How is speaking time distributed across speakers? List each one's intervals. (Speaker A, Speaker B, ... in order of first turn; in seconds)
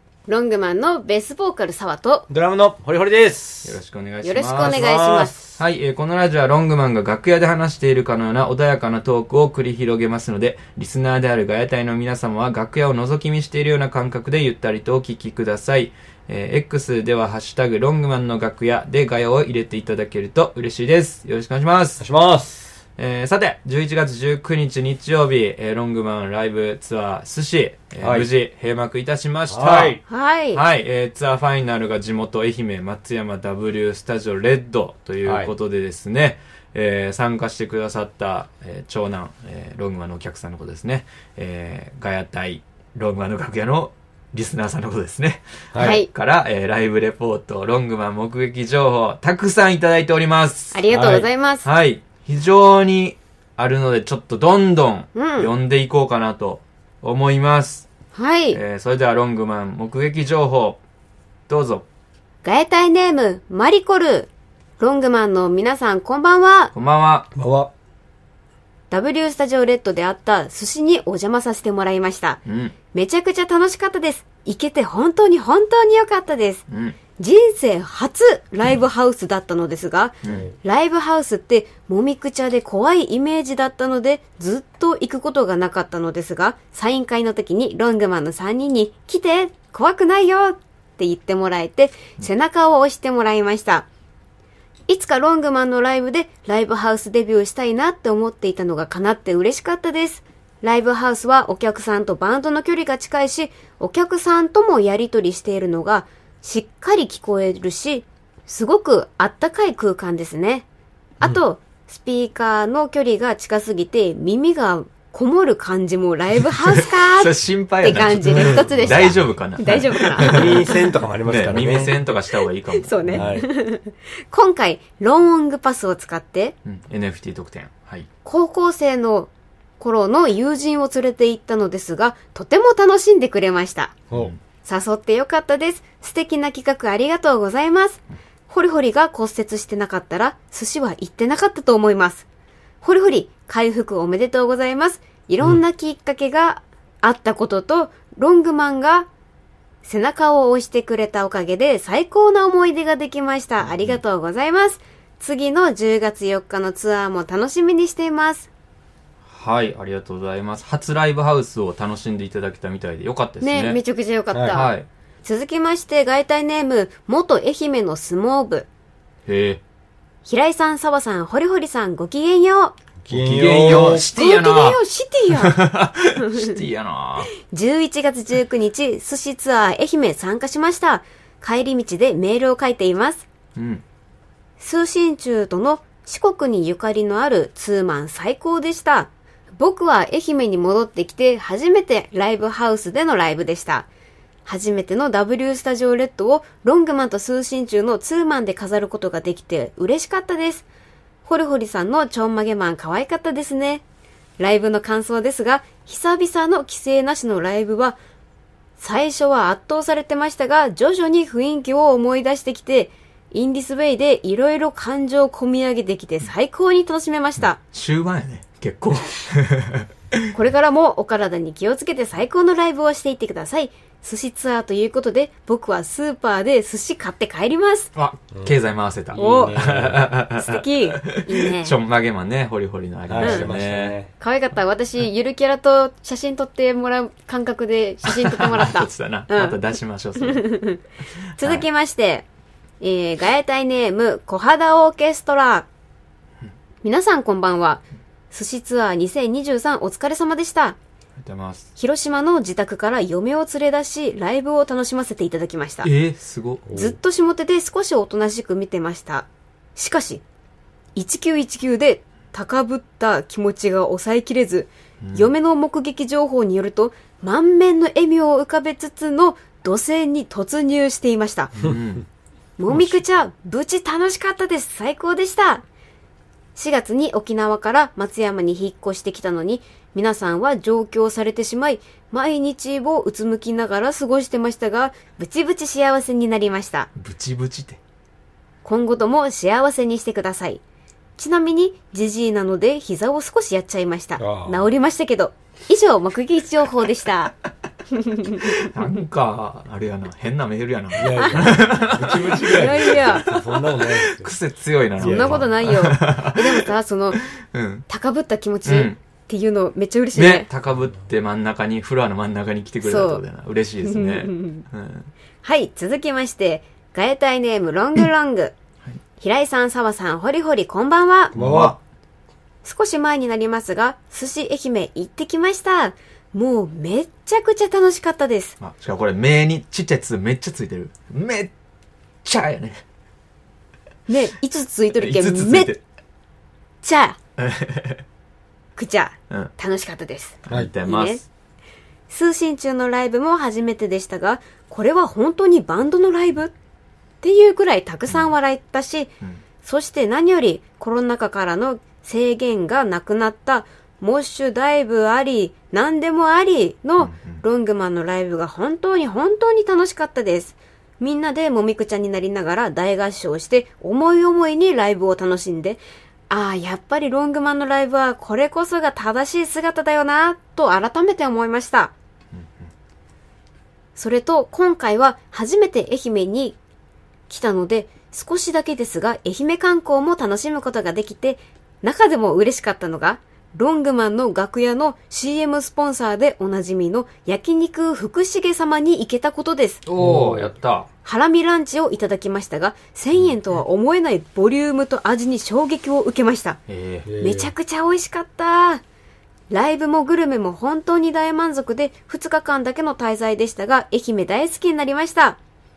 Speaker A: 0.3-2.3, 4.2-5.3, 30.1-30.6, 45.8-46.1, 50.7-51.7, 55.1-55.5, 58.1-58.6, 62.4-64.3, 64.8-66.7, 68.9-72.4, 72.9-76.6, 77.2-93.9, 94.9-110.7, 111.2-120.6, 122.7-126.5, 128.2-133.9, 134.7-142.2, 142.8-149.1, 149.8-158.5, 163.4-164.7, 165.2-168.7, 170.2-172.8, 173.8-175.6, 176.2-176.6, 177.5-183.2, 184.6-193.9, 194.5-200.7, 201.2-203.8, 204.4-208.0, 208.8-217.6, 220.3-227.9, 229.1-229.7, 230.3-231.8, 233.2-233.5, 234.2-239.6, 240.2-240.8, 241.4-242.2, 242.8-245.7, 246.8-250.8, 251.8-255.9, 256.7-260.2, 260.9-271.7, 272.6-275.6, 276.6-286.9, 288.6-290.6, 291.2-297.3, 297.9-298.7, 302.3-303.2, 305.0-307.2, 307.9-310.5, 312.8-313.2, 313.8-314.6, 315.4-318.5, 319.2-321.3, 322.6-328.6, 334.1-335.8, 336.8-337.2, 338.8-341.2, 342.1-346.5, 347.2-349.1, 349.6-371.9, 373.9-376.6, 377.3-389.8, 391.0-396.6, 397.2-398.8, 399.5-405.4
Speaker B: 2.3-3.8, 4.6-5.6, 22.0-22.7, 28.0-28.3, 29.5-30.0, 35.2-35.5, 50.9-51.2, 67.3-67.7, 120.2-122.0, 123.1-123.5, 164.3-164.6, 173.0-174.1, 229.1-230.1, 233.1-234.1, 256.7-256.9, 294.2-294.6, 301.0-304.3, 305.0-305.5, 321.3-321.8, 390.0-390.5, 397.1-397.5
Speaker C: 3.6-4.9, 5.5-22.0, 23.0-30.0, 30.5-57.9, 58.5-60.8, 61.5-61.9, 66.7-67.3, 72.5-72.8, 76.7-77.0, 116.5-120.7, 121.2-123.3, 126.7-128.1, 134.1-134.4, 153.6-154.0, 159.3-163.8, 164.5-164.9, 169.3-169.6, 173.1-174.8, 175.3-177.3, 183.6-183.8, 217.4-220.3, 228.0-234.0, 238.1-240.4, 241.4-241.7, 251.2-251.7, 255.8-256.7, 265.0-265.3, 271.6-272.1, 272.7-273.0, 286.9-287.8, 298.4-306.7, 307.4-307.9, 308.6-309.0, 310.1-315.1, 321.3-321.8, 328.6-331.5, 332.2-332.8, 334.9-335.8, 337.4-338.0, 340.4-341.2, 357.0-357.4, 389.9-390.9, 396.7-397.1